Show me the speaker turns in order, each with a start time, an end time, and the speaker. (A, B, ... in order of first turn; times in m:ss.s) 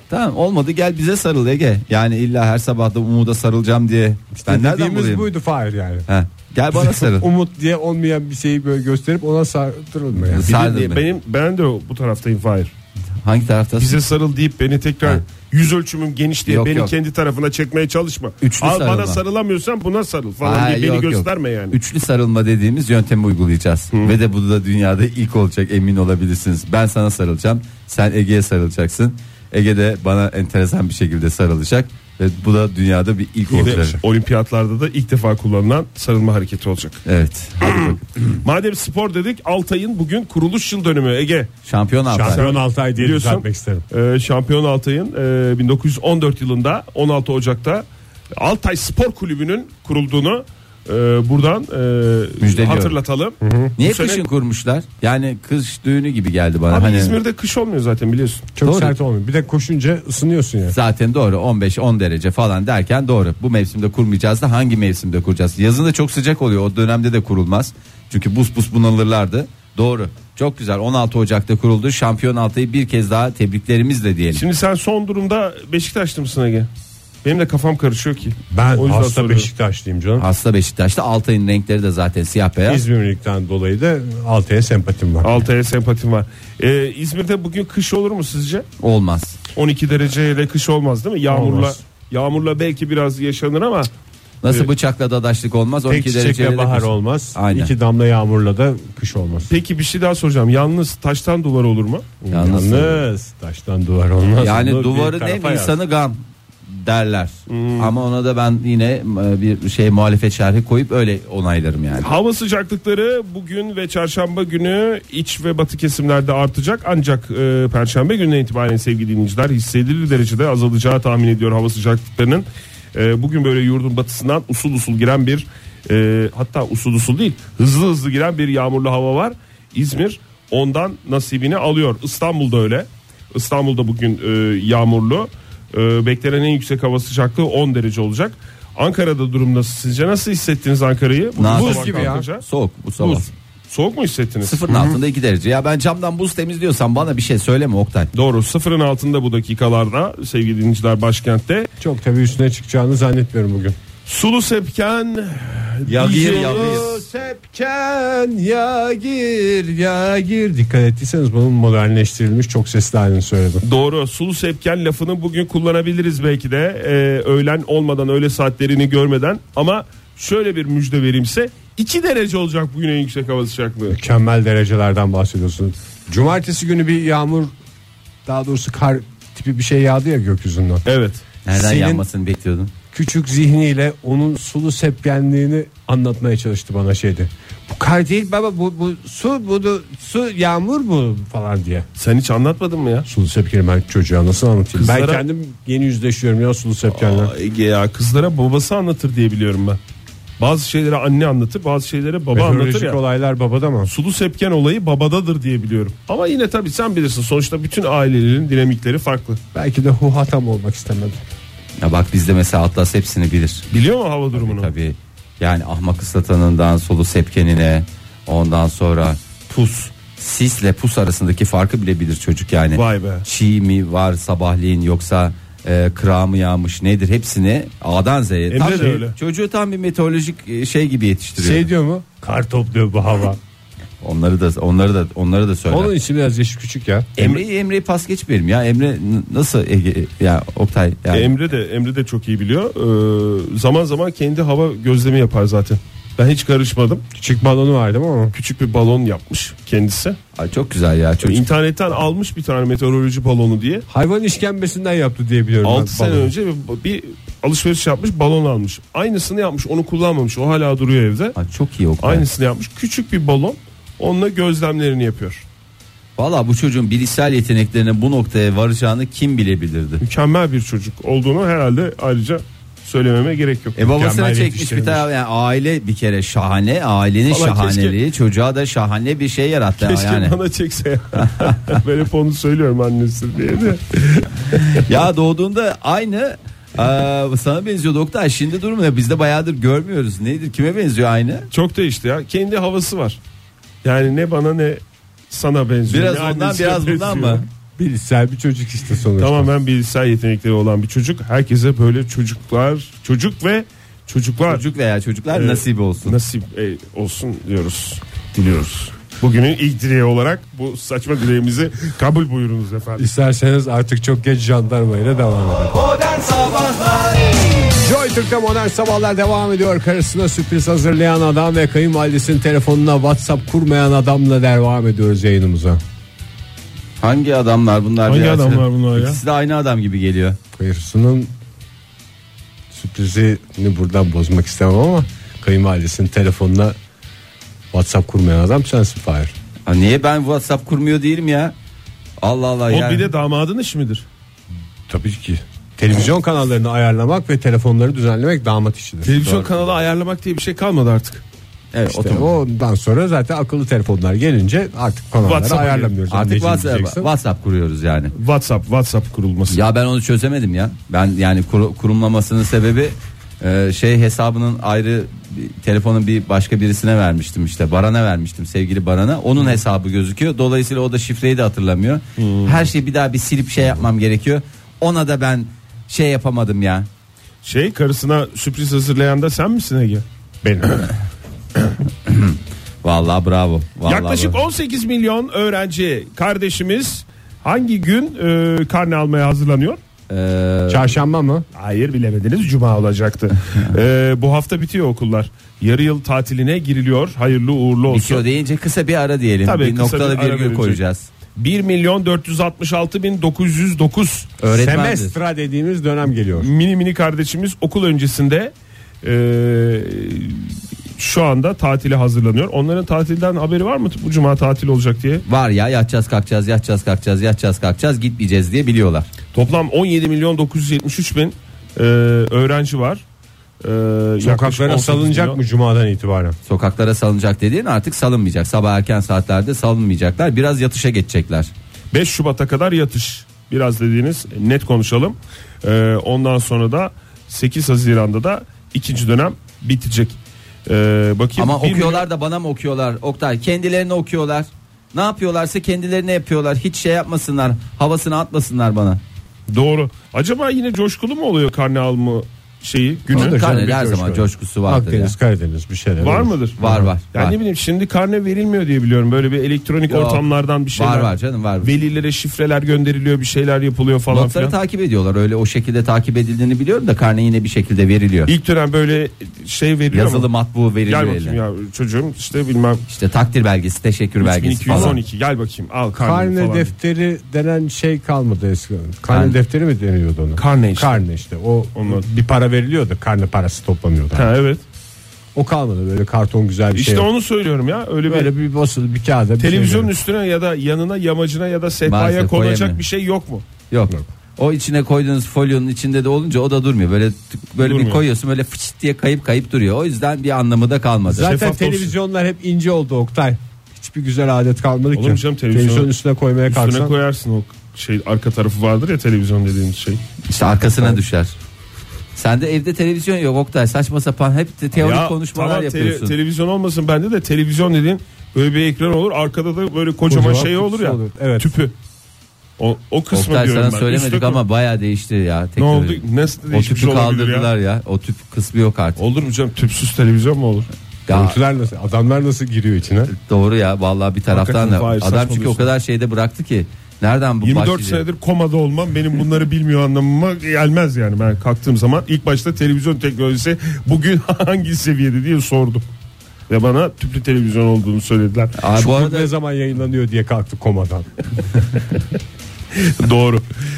0:00.1-0:05.3 A
0:04.4-0:06.1 B
0:06.1-0:07.3 A
0:06.7-0:10.4 B
0:10.3-0:11.0 A
0:10.4-0:12.7 C
0:13.2-0:14.0 A
0:13.8-0:21.8 C
0:16.5-0:16.9 A
0:18.4-0:19.2 A
0:20.4-0:34.0 A
0:33.5-0:33.9 B
0:33.6-0:37.0 C
0:37.0-0:38.4 A
0:37.6-0:41.5 C
0:41.7-0:42.5 A
0:42.1-0:43.8 B
0:42.2-0:47.8 C
0:48.4-0:54.2 C
0:52.4-0:53.0 A
0:53.4-0:53.7 B
0:53.8-0:57.2 A
0:56.7-0:58.5 C
0:58.6-1:00.8 B
0:58.6-0:58.9 A
1:00.7-1:14.4 A
1:14.3-1:16.7 C
1:17.2-1:19.5 C
1:18.5-1:20.3 B
1:20.2-1:22.8 A
1:22.7-1:25.3 B
1:25.2-1:28.7 C
1:28.8-1:29.4 A
1:29.6-1:33.9 C
1:31.3-1:31.8 B
1:34.4-1:37.7 A
1:35.8-1:39.5 B
1:39.5-1:42.2 C
1:42.2-1:45.8 B
1:42.3-1:43.0 A
1:44.4-1:52.1 A
1:47.5-1:47.9 C
1:52.0-2:22.4 C
2:21.4-2:23.3 A
2:21.5-2:22.3 B
2:23.0-2:25.0 C
2:24.4-2:28.1 A
2:28.1-2:31.7 C
2:31.8-2:33.8 B
2:34.1-2:37.0 C
2:35.9-2:37.0 A
2:36.0-2:43.6 B
2:43.6-2:54.0 C
2:53.9-2:57.5 B
2:58.2-3:00.8 B
3:00.9-3:01.2 C
3:01.4-3:02.7 A
3:01.5-3:02.0 B
3:02.9-3:11.9 B
3:12.0-3:13.1 C
3:13.1-3:17.3 B
3:14.8-3:15.2 C
3:17.0-3:19.8 C
3:20.4-3:23.0 C
3:22.3-3:23.9 B
3:23.9-3:29.4 C
3:29.5-3:31.2 B
3:31.8-3:33.7 A
3:33.7-3:34.7 C
3:34.3-3:51.7 A
3:42.8-3:43.3 C
3:48.5-3:49.2 C
3:51.4-3:53.4 B
3:54.0-3:55.9 A
3:55.7-3:57.1 B
3:57.2-4:01.3 A
4:01.1-4:07.0 C
4:07.2-4:08.4 B
4:08.3-4:10.2 C
4:10.4-4:11.4 A
4:11.2-4:13.9 C
4:13.9-4:16.3 B
4:15.6-4:21.4 C
4:21.4-4:22.3 A
4:22.0-4:25.4 C
4:26.2-4:30.0 A
4:30.0-4:33.8 C
4:33.8-4:35.1 B
4:33.8-4:40.4 A
4:37.3-4:38.0 C
4:39.8-4:44.9 C
4:41.2-4:41.8 A
4:44.7-4:51.5 A
4:51.5-4:53.2 C
4:53.8-4:57.4 C
4:55.9-4:57.5 A
4:57.8-4:59.5 B
4:59.2-5:04.6 C
5:04.5-5:06.2 A
5:05.3-5:13.1 C
5:13.0-5:15.9 B
5:17.7-5:25.8 B
5:27.0-5:30.4 A
5:28.1-5:29.2 C
5:30.6-5:31.3 B
5:32.7-5:36.8 B
5:37.7-5:39.3 B
5:39.7-5:41.5 A
5:42.2-5:43.1 A
5:42.7-5:44.0 C
5:44.9-5:49.1 B
5:49.0-5:51.2 C
5:49.2-5:49.5 A
5:51.7-5:52.3 A
5:51.9-5:57.1 B
5:55.2-5:56.0 C
5:56.1-5:58.1 A
5:58.2-5:59.6 C
5:59.5-6:16.9 A
6:12.2-6:12.6 C
6:17.4-6:20.0 C
6:20.4-6:20.9 B
6:22.1-6:24.4 A
6:23.8-6:29.8 C
6:30.1-6:30.9 A
6:30.7-6:31.5 B
6:31.6-6:38.2 C
6:37.9-6:41.1 A
6:39.4-6:40.8 C
6:41.4-6:44.3 C
6:44.4-6:45.1 A
6:44.5-6:46.5 B
6:46.4-6:55.2 C
6:55.3-6:59.1 A
6:59.3-7:03.0 C
7:03.6-7:05.4 C
7:04.2-7:06.4 B
7:06.5-7:11.5 A
7:11.9-7:22.0 C
7:21.4-7:29.0 A
7:29.5-7:33.4 C
7:33.1-7:36.9 B
7:33.1-7:35.1 A
7:36.0-7:44.6 C
7:36.6-7:37.4 A
7:39.9-7:41.7 A
7:44.1-7:48.3 A
7:48.3-7:50.3 C
7:49.9-7:51.4 A
7:50.9-7:52.8 C
7:52.9-7:55.0 A
7:54.2-7:56.7 C
7:54.7-7:55.0 B
7:56.0-8:04.3 B
7:59.1-7:59.4 A
8:00.4-8:01.0 C
8:01.8-8:02.0 C
8:04.1-8:04.6 C
8:05.4-8:07.1 B
8:06.7-8:08.3 C
8:08.0-8:09.9 B
8:09.4-8:13.4 C
8:11.9-8:12.8 A
8:13.7-8:21.3 A
8:17.6-8:18.0 C
8:21.1-8:26.9 B
8:21.2-8:21.9 C
8:25.0-8:25.9 C
8:26.5-8:30.0 C
8:30.3-8:31.3 A
8:32.2-8:36.2 A
8:34.8-8:41.7 C
8:40.1-8:41.5 B
8:42.6-8:44.4 C
8:43.1-8:49.0 A
8:45.6-8:47.5 C
8:49.0-8:50.7 C
8:51.1-8:51.4 A
8:51.1-8:53.1 B
8:53.1-8:58.0 A
8:54.3-8:55.7 C
8:57.4-9:05.8 C
9:06.5-9:08.6 C
9:08.6-9:09.3 A
9:08.8-9:11.1 B
9:12.7-9:13.4 C